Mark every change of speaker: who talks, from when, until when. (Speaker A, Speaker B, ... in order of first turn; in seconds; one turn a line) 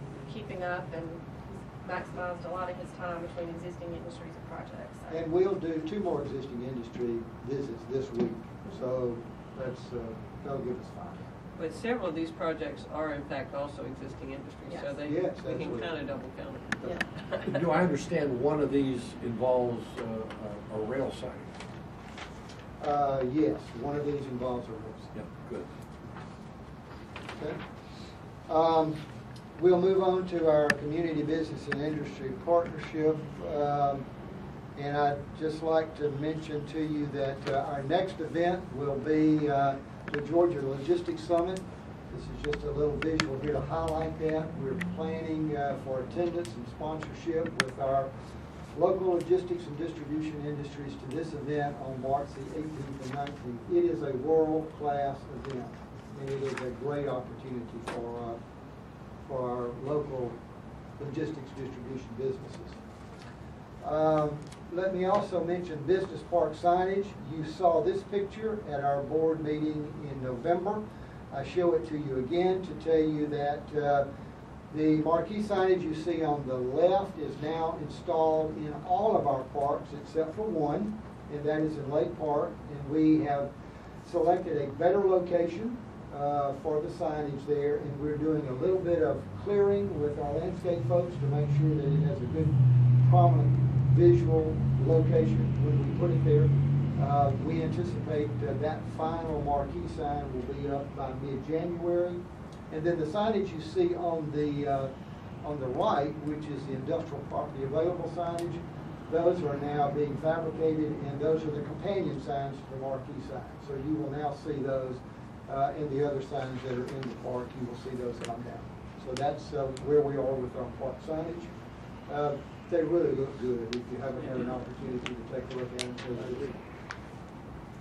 Speaker A: 0.2-5.2
Speaker B: 5.1-11.2
Speaker C: 11.6-17.6
Speaker A: 14.7-14.9
Speaker B: 15.0-15.9
Speaker D: 17.4-21.5
Speaker B: 22.8-25.1
Speaker D: 25.1-25.7
Speaker B: 28.5-29.0
Speaker B: 29.5-34.0
Speaker B: 34.8-48.1
Speaker B: 48.7-58.4
Speaker B: 59.2-60.4
Speaker B: 61.0-62.8
Speaker B: 63.8-74.0
Speaker B: 74.7-83.5
Speaker B: 84.0-104.9
Speaker B: 105.4-121.5
Speaker B: 122.1-126.6